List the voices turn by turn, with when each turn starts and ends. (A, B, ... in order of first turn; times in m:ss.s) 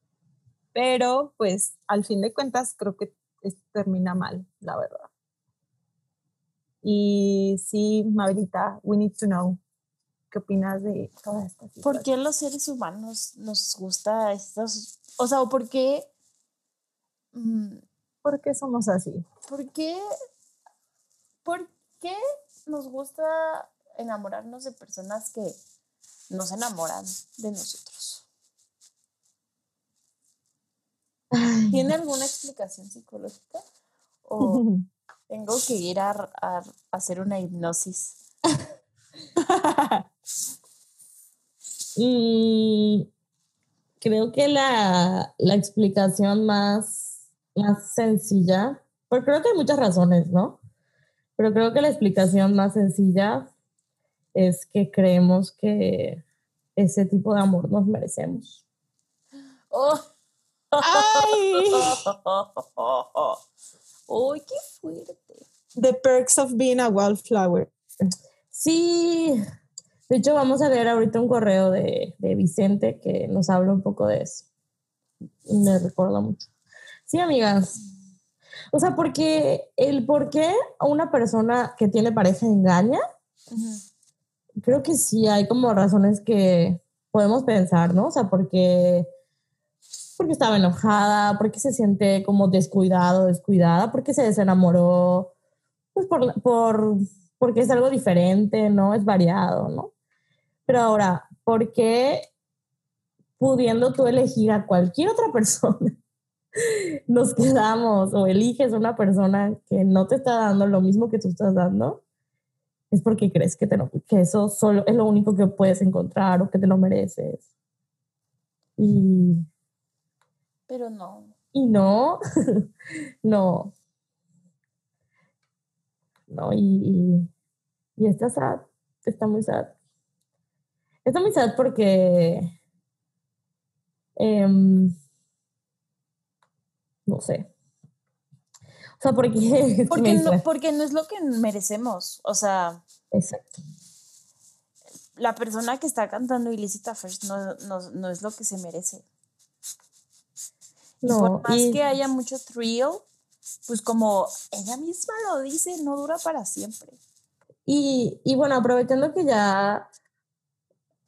0:00.7-0:05.1 A
0:06.8-0:09.6 A
0:10.3-0:12.1 A
0:11.8-0:16.1 B
0:17.3-0:17.8 B
0:18.2-0:19.2 A
0:19.5-0:20.0 B
0:21.4-0:25.6 B
0:26.3-0:28.2 B
0:31.3-0:31.9 C
0:31.7-0:33.6 B
0:34.2-0:34.6 B
0:34.4-0:34.8 A
0:35.3-0:38.2 B
0:39.4-0:40.0 A
0:42.0-0:43.0 C
0:44.0-0:47.0 C
0:47.5-0:50.6 C
0:51.4-0:53.5 C
0:54.3-0:56.2 C
0:56.8-0:58.6 C
0:59.7-1:00.0 B
1:00.7-1:01.4 C
1:00.8-1:02.0 A
1:02.0-1:03.4 B
1:04.1-1:05.4 B
1:05.8-1:08.1 A
1:08.5-1:09.4 C
1:10.1-1:14.4 C
1:15.4-1:16.4 C
1:17.1-1:17.8 C
1:18.7-1:23.0 C
1:23.5-1:23.8 B
1:24.6-1:29.1 C
1:30.2-1:35.3 C
1:35.9-1:39.9 C
1:40.7-1:42.3 C
1:43.4-1:46.0 C
1:46.7-1:52.0 C
1:52.9-1:57.4 C
1:58.8-1:59.4 C
2:00.7-2:01.3 B
2:01.5-2:02.6 C
2:03.2-2:03.7 C
2:06.3-2:07.3 C
2:08.0-2:09.7 C
2:11.0-2:12.5 C
2:14.2-2:15.0 C
2:17.1-2:17.5 C
2:19.0-2:20.4 C
2:19.9-2:22.8 B
2:23.1-2:23.6 C
2:25.2-2:29.0 B
2:31.0-2:31.8 C
2:31.0-2:33.0 B
2:33.7-2:37.0 B
2:37.6-2:39.9 C